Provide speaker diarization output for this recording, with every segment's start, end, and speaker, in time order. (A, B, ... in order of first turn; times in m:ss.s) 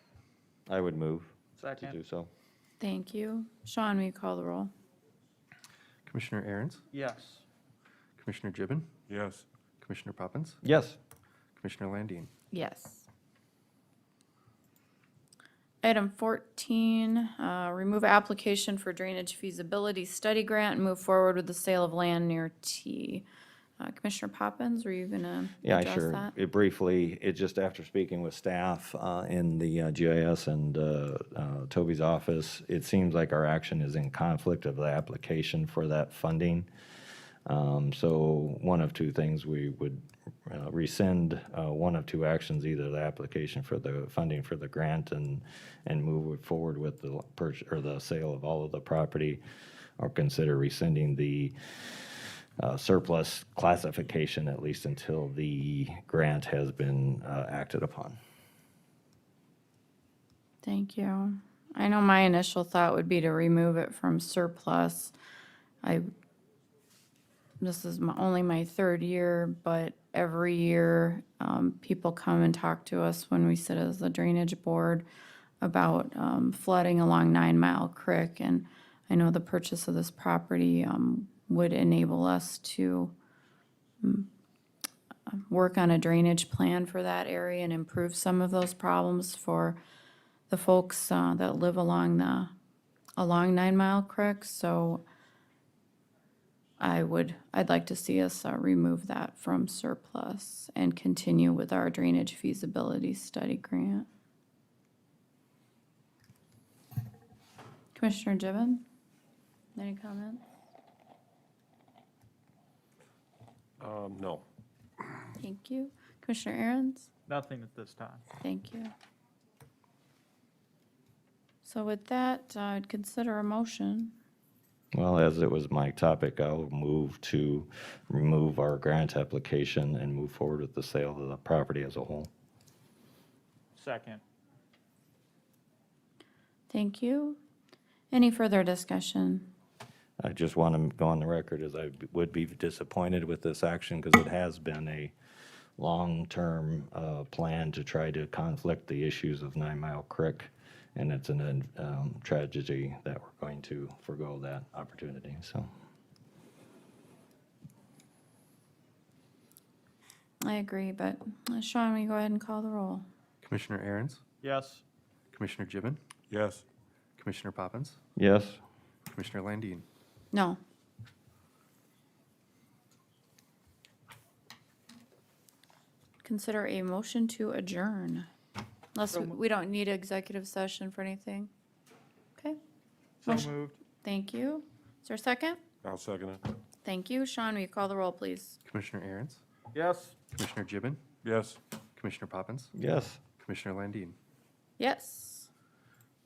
0:00.7-0:02.3 A
0:01.6-0:02.0 B
0:02.8-0:04.7 C
0:06.1-0:06.8 D
0:06.9-0:07.4 B
0:08.2-0:08.9 D
0:09.1-0:09.4 E
0:09.8-0:10.6 D
0:10.6-0:11.0 A
0:11.6-0:12.3 D
0:12.5-0:13.1 C
0:15.8-0:23.3 C
0:23.8-0:26.3 C
0:25.6-0:36.7 A
0:37.5-0:49.4 A
0:50.0-0:58.2 A
1:00.6-1:05.1 C
1:05.8-1:06.1 C
1:07.6-1:15.1 C
1:15.6-1:23.1 C
1:24.0-1:24.3 C
1:25.3-1:29.8 C
1:30.5-1:32.5 C
1:33.2-1:35.0 C
1:36.8-1:44.1 C
1:48.0-1:48.8 C
1:49.8-1:50.4 C
1:53.8-1:54.4 E
1:55.4-1:57.1 C
1:57.3-1:58.2 B
1:58.4-1:58.9 C
2:01.6-2:04.2 C
2:04.9-2:12.3 A
2:13.8-2:14.2 B
2:16.7-2:17.4 C
2:18.1-2:19.5 C
2:20.2-2:25.1 A
2:25.8-2:35.7 A
2:40.4-2:43.0 C
2:43.4-2:44.2 D
2:44.4-2:44.8 B
2:45.3-2:46.0 D
2:46.3-2:46.6 E
2:47.2-2:48.0 D
2:48.2-2:48.6 A
2:49.1-2:49.8 D
2:50.3-2:50.6 C
2:56.2-2:58.3 C
2:59.0-3:01.5 C
3:03.2-3:03.8 B
3:04.0-3:05.6 C
3:05.8-3:06.4 E
3:06.8-3:08.6 C
3:08.6-3:09.4 D
3:09.7-3:10.2 B
3:10.3-3:11.0 D
3:11.2-3:11.6 E
3:12.0-3:12.7 D
3:12.7-3:13.2 A
3:13.4-3:14.2 D
3:14.8-3:15.5 C